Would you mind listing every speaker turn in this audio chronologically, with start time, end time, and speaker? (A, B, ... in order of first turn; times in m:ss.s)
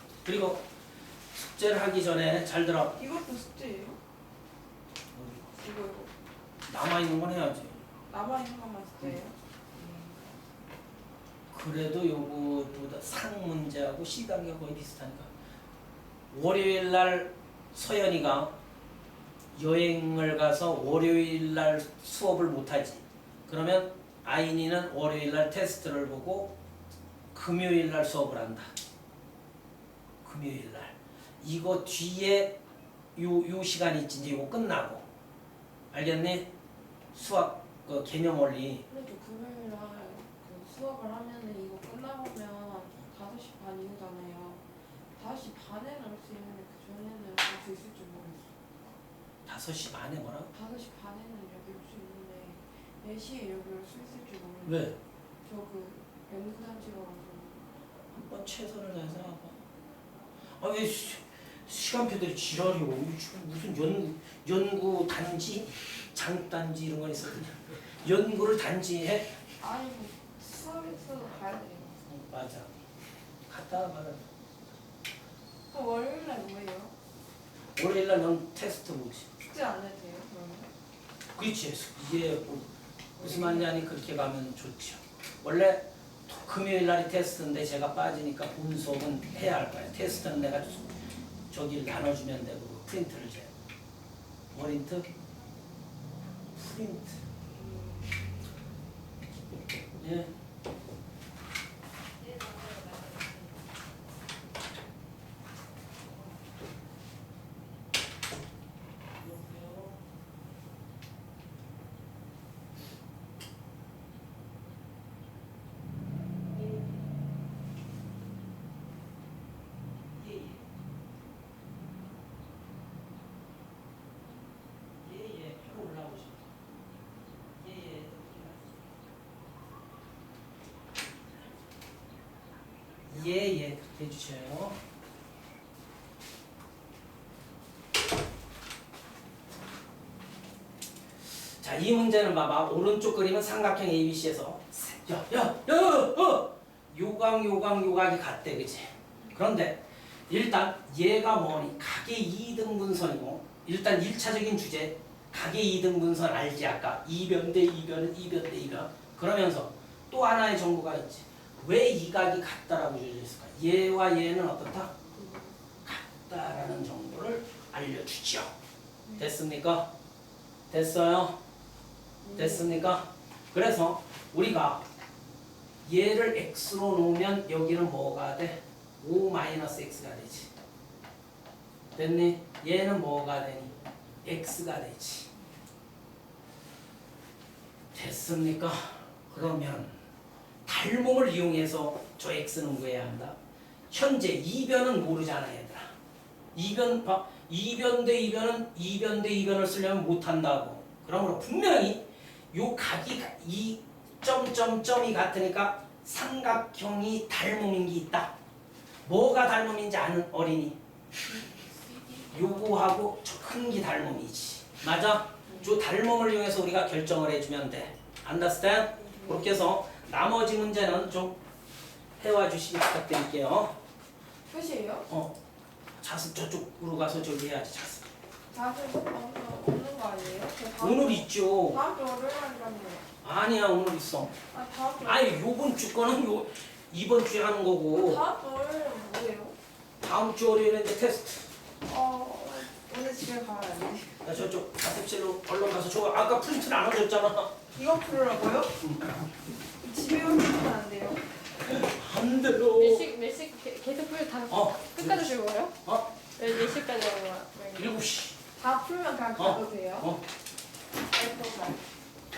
0:00.2-0:00.6 A
0:01.3-0:03.0 A
0:03.0-0:04.0 B
0:05.1-0:05.5 A
0:05.5-0:06.1 B
0:06.7-0:07.8 A
0:08.1-0:10.3 B
0:11.5-0:15.3 A
0:16.3-0:18.5 A
0:19.6-0:26.6 A
0:27.3-0:28.7 A
0:30.2-0:32.6 A
0:33.2-0:35.0 A
0:35.9-0:36.5 A
0:37.1-0:38.8 A
0:38.9-0:44.6 B
0:45.2-0:48.6 B
0:49.5-0:50.5 A
0:50.5-0:54.9 B
0:54.6-0:55.0 A
0:55.4-0:57.7 B
0:58.1-0:59.6 A
1:00.6-1:09.4 A
1:09.6-1:12.0 B
1:12.0-1:12.7 A
1:13.5-1:14.3 A
1:15.7-1:17.0 B
1:17.8-1:19.3 A
1:19.4-1:20.7 B
1:21.4-1:30.9 A
1:23.2-1:23.7 B
1:31.5-1:33.5 A
1:34.5-1:35.1 A
1:36.5-1:37.2 A
1:37.6-1:38.2 B
1:40.0-1:40.3 A
1:49.2-1:49.9 A
2:00.2-2:00.6 A
2:05.0-2:06.5 A
2:07.6-2:08.8 A
2:13.1-2:14.8 A
2:21.6-2:44.9 A
2:45.1-2:45.6 B
2:45.8-2:48.5 A
2:49.2-2:49.9 A
2:50.7-2:51.4 A
2:52.2-2:52.8 B
2:52.4-2:54.8 A
2:55.8-3:00.5 A
3:02.0-3:05.3 A
3:07.9-3:10.0 A
3:10.6-3:13.4 A
3:13.9-3:15.9 A
3:16.5-3:28.3 A
3:29.1-3:30.8 A
3:31.3-3:32.3 B
3:32.3-3:41.4 A
3:35.5-3:35.7 B
3:39.1-3:39.6 B
3:42.2-3:43.8 A
3:44.5-3:45.1 B
3:45.1-3:45.4 A
3:46.0-3:48.1 A
3:48.5-3:53.1 B
3:50.8-3:51.8 A
3:53.2-3:54.4 A
3:54.5-3:55.4 B
3:55.0-3:58.2 A
3:57.9-3:59.6 B
4:00.0-4:01.5 A
4:01.8-4:04.2 B
4:04.2-4:07.7 A
4:07.7-4:08.8 B
4:08.8-4:09.2 A
4:09.8-4:11.4 B
4:11.6-4:13.1 A
4:12.8-4:14.6 C
4:14.5-4:16.6 A
4:14.8-4:15.8 B
4:16.4-4:17.7 C
4:17.6-4:17.9 B
4:17.8-4:18.4 A
4:18.6-4:20.1 B
4:19.4-4:20.2 A
4:21.1-4:21.8 B